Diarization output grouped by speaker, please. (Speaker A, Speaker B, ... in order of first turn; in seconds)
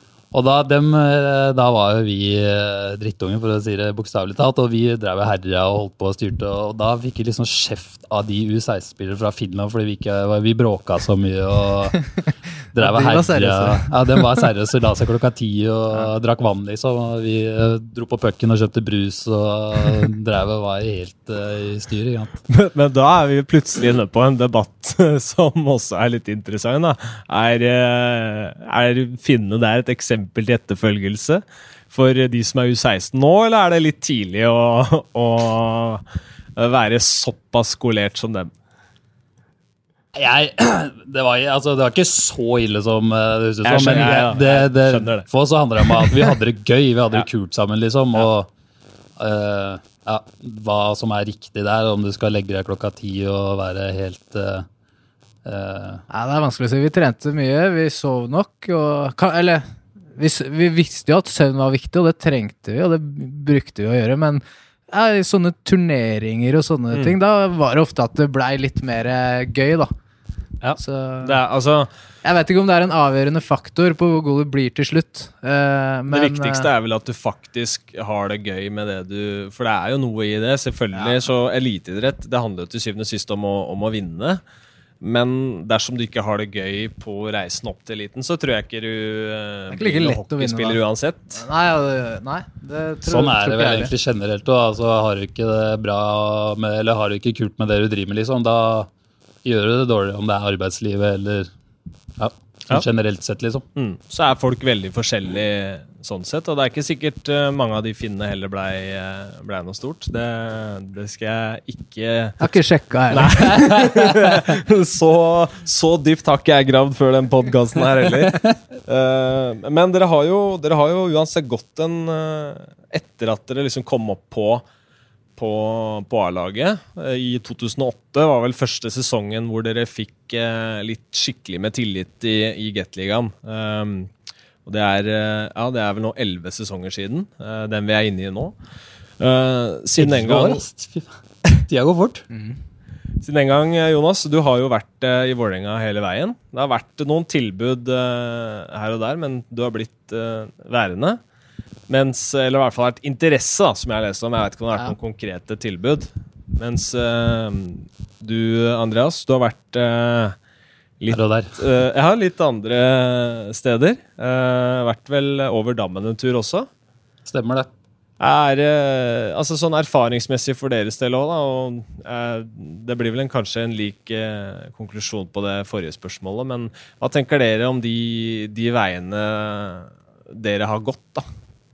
Speaker A: 0.3-12.0, 12.7-22.4, 40.1-48.5, 49.2-54.6, 55.4-56.0, 93.1-98.9, 99.4-101.5, 102.2-103.7, 113.3-114.4, 118.3-118.5, 140.0-142.3, 161.1-161.6, 167.3-167.7
Speaker B: 12.8-14.5, 56.1-69.9, 70.8-71.4, 72.2-76.7, 80.9-81.2, 89.7-90.8, 91.3-93.9, 112.4-113.7, 142.3-142.6
Speaker C: 22.5-36.0, 36.5-38.5, 43.6-45.3, 70.6-71.9, 76.1-84.4, 85.0-91.4, 103.8-112.5, 113.1-124.6, 125.4-134.1, 134.7-138.5, 139.2-140.6, 143.2-151.2, 151.9-160.3, 161.0-166.7, 168.2-181.2